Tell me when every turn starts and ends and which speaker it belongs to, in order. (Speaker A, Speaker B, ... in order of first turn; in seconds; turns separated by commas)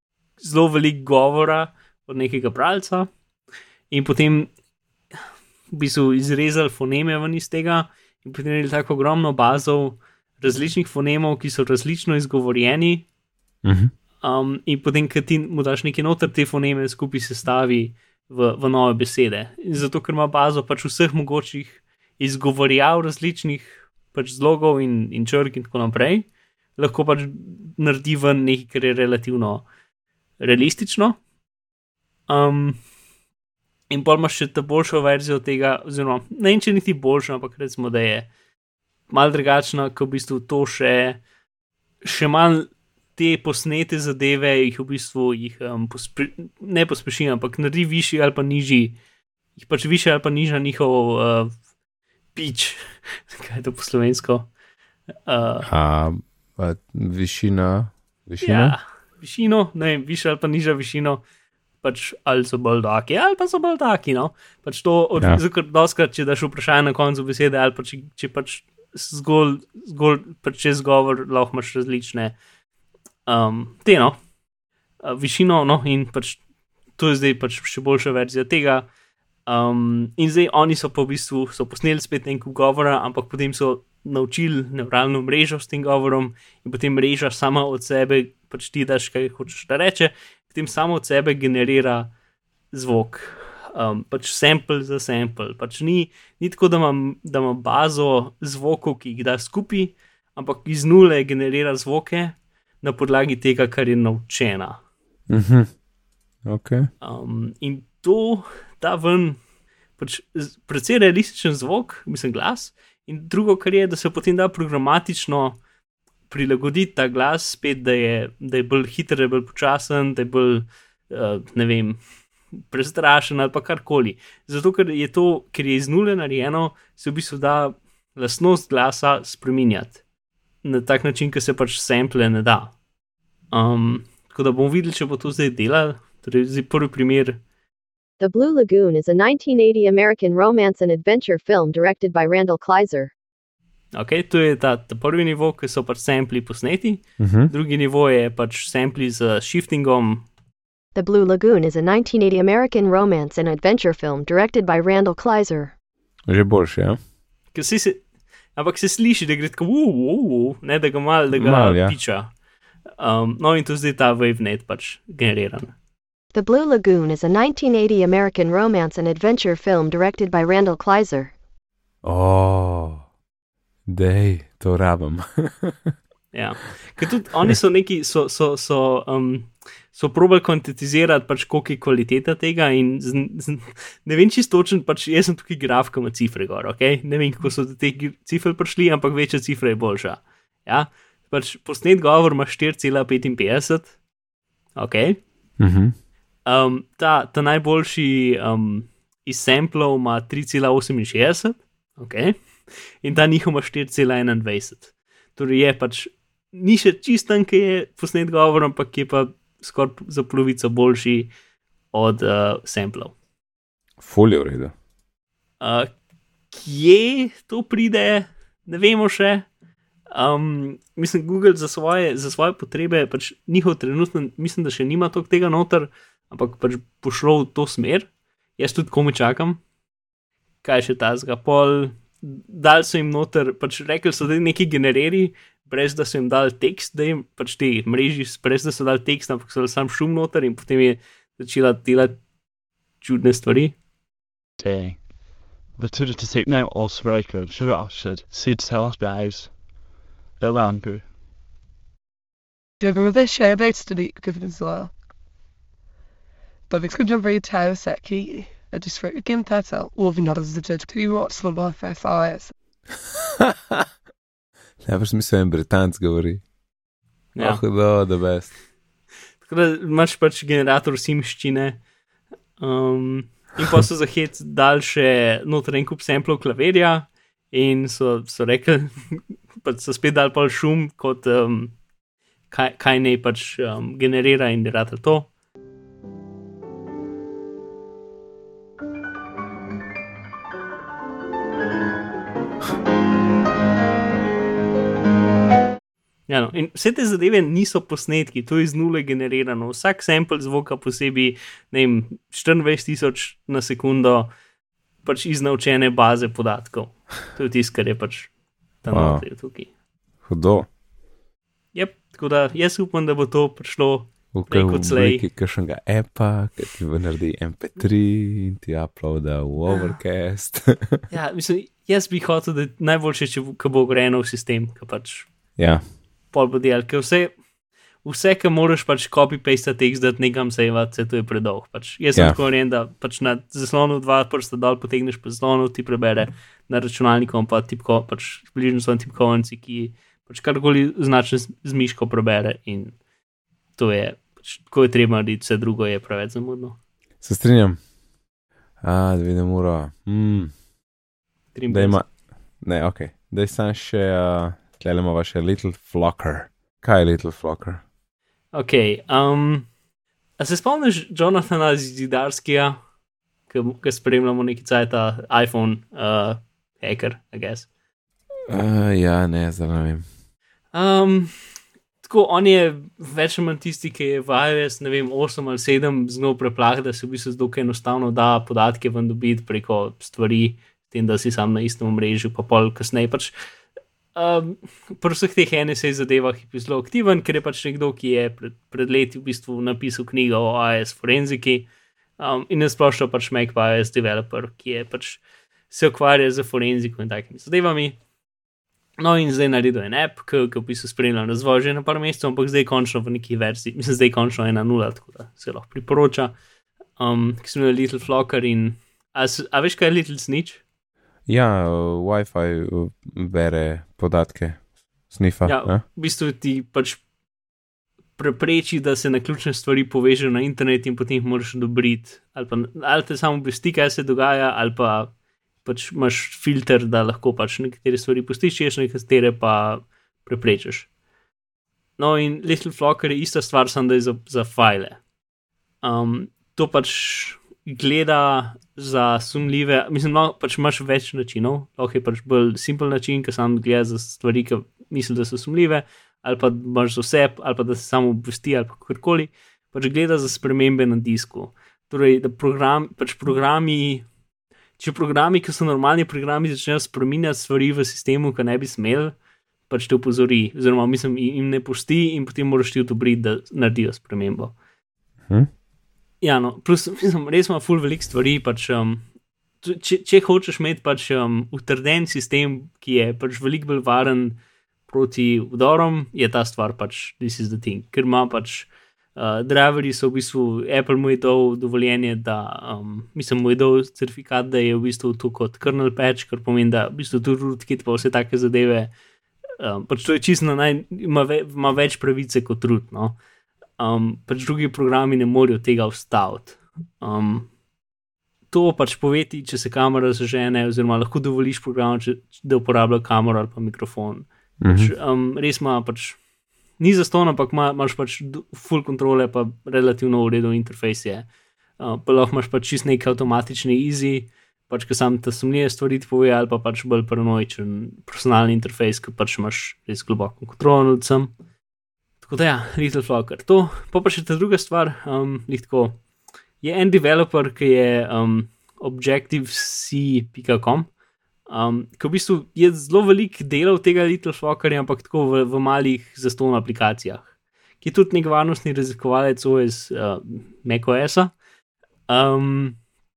Speaker A: 0.4-3.1, Speaker A: 3.9-4.5, Speaker A: 5.7-13.1, Speaker B: 13.6-13.9, Speaker A: 14.2-29.7, Speaker A: 30.4-31.2, Speaker A: 32.3-32.8, Speaker A: 33.9-38.3, Speaker A: 39.1-41.2, Speaker A: 42.0-49.0, Speaker A: 49.6-51.5, Speaker A: 52.4-54.5, Speaker A: 55.3-55.7, Speaker B: 55.7-58.8, Speaker A: 58.4-61.2, Speaker A: 61.8-72.3, Speaker A: 73.3-74.2, Speaker A: 75.0-76.4, Speaker A: 77.0-78.9, Speaker A: 79.5-92.1, Speaker A: 92.7-104.8, Speaker B: 105.3-105.7, Speaker B: 106.5-106.9, Speaker A: 107.0-109.4, Speaker A: 110.0-115.6, Speaker A: 116.3-122.0, Speaker A: 122.7-130.0, Speaker A: 130.6-132.7, Speaker A: 133.5-137.4, Speaker C: 138.2-143.1, Speaker A: 143.9-150.2, Speaker B: 147.2-147.5, Speaker C: 150.9-155.7, Speaker B: 156.3-157.0, Speaker A: 157.5-158.0, Speaker A: 158.6-162.3, Speaker B: 161.3-162.0, Speaker A: 163.0-165.8, Speaker C: 166.3-171.3, Speaker B: 172.0-173.0, Speaker B: 173.9-175.9, Speaker A: 176.3-193.9, Speaker A: 194.8-195.2, Speaker B: 195.6-195.9, Speaker A: 196.5-211.3, Speaker A: 211.9-213.1, Speaker B: 214.0-214.7, Speaker A: 215.6-215.9, Speaker A: 216.5-219.5, Speaker A: 220.1-229.6, Speaker A: 230.6-242.2, Speaker A: 243.0-243.8, Speaker D: 244.6-245.1, Speaker D: 245.7-249.6, Speaker D: 250.4-251.1, Speaker E: 252.8-254.9, Speaker E: 256.7-262.5, Speaker B: 263.5-263.8, Speaker B: 264.8-266.4, Speaker A: 267.4-267.6, Speaker B: 267.4-268.5, Speaker A: 269.4-271.8, Speaker A: 272.6-281.7, Speaker A: 282.5-285.3, Speaker A: 296.3-304.3, Speaker A: 305.0-308.3, Speaker A: 308.8-309.7, Speaker B: 308.9-309.2, Speaker B: 310.2-310.7, Speaker A: 311.7-315.2, Speaker B: 314.3-321.1, Speaker A: 319.7-320.0, Speaker A: 321.1-325.3, Speaker B: 325.6-325.8, Speaker A: 326.3-327.4, Speaker A: 328.0-342.9, Speaker A: 343.8-346.8, Speaker B: 347.2-347.8, Speaker B: 348.8-350.5, Speaker A: 351.5-352.0, Speaker B: 351.7-357.8, Speaker A: 358.5-359.7, Speaker A: 360.4-362.8, Speaker A: 363.5-367.7, Speaker B: 368.5-370.1, Speaker A: 370.7-371.4, Speaker A: 372.0-383.3, Speaker A: 384.1-398.0, Speaker A: 399.0-406.4, Speaker A: 407.0-410.6, Speaker B: 411.3-415.8, Speaker A: 415.4-417.0, Speaker A: 418.2-425.1, Speaker A: 425.6-430.9, Speaker A: 432.0-435.0, Speaker A: 435.8-454.1, Speaker A: 454.8-459.1, Speaker A: 459.7-464.5, Speaker A: 466.2-469.0, Speaker A: 469.6-488.9, Speaker A: 489.6-493.2, Speaker A: 493.8-497.5, Speaker A: 498.5-506.2, Speaker B: 504.6-504.9, Speaker A: 506.8-511.3, Speaker A: 511.8-521.3, Speaker A: 522.2-526.0, Speaker A: 526.6-530.9, Speaker A: 531.5-537.3, Speaker A: 537.8-541.4, Speaker A: 542.1-542.8